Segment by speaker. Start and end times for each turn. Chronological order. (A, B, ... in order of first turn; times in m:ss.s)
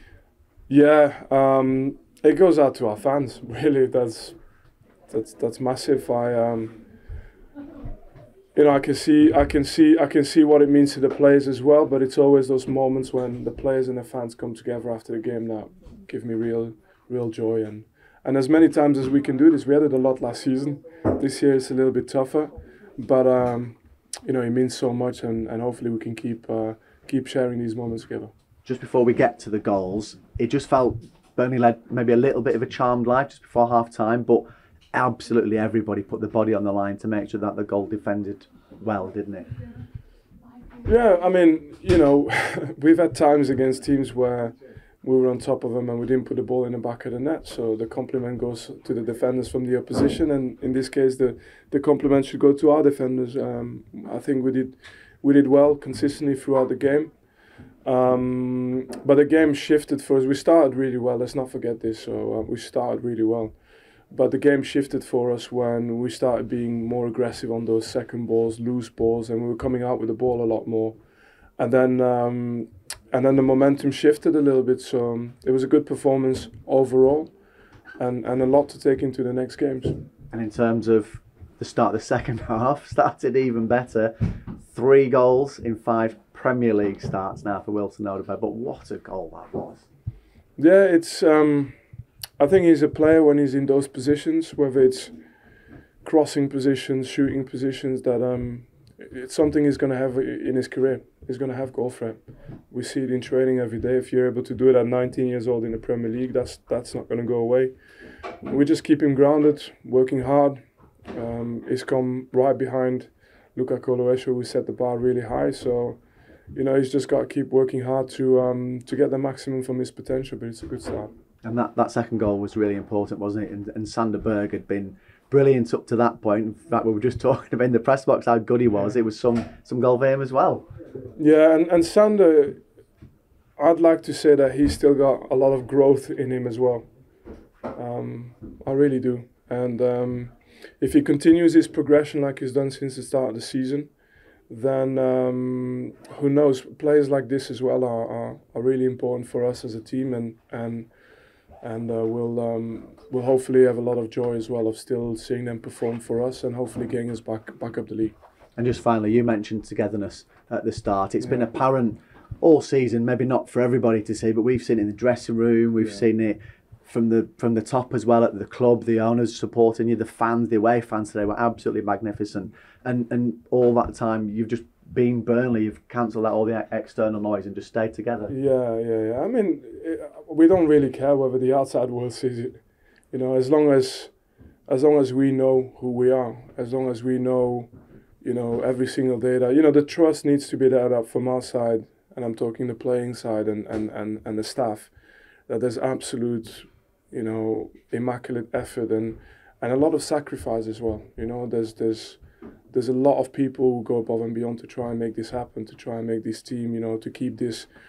0:00.7-0:04.4 A
0:05.1-0:06.8 A
0:08.5-0:28.3 A
0:28.6-0:39.5 B
0:40.8-0:57.2 A
0:57.8-1:03.6 A
1:04.1-1:11.0 A
1:11.6-1:17.3 A
1:18.0-1:20.0 A
1:20.3-1:24.1 B
1:24.7-1:29.8 B
1:30.6-1:31.8 A
1:32.4-1:35.1 A
1:36.0-1:47.8 A
1:48.4-1:50.6 A
1:51.1-1:56.0 A
1:56.5-2:01.1 A
2:01.4-2:10.7 B
2:11.2-2:12.6 A
2:13.6-2:16.8 A
2:17.7-2:23.9 A
2:24.5-2:30.9 A
2:31.6-2:38.2 A
2:38.6-2:58.3 B
2:58.3-3:02.6 A
3:03.1-3:04.1 A
3:04.7-3:07.7 A
3:08.2-3:14.9 A
3:15.5-3:22.2 A
3:22.7-3:27.7 A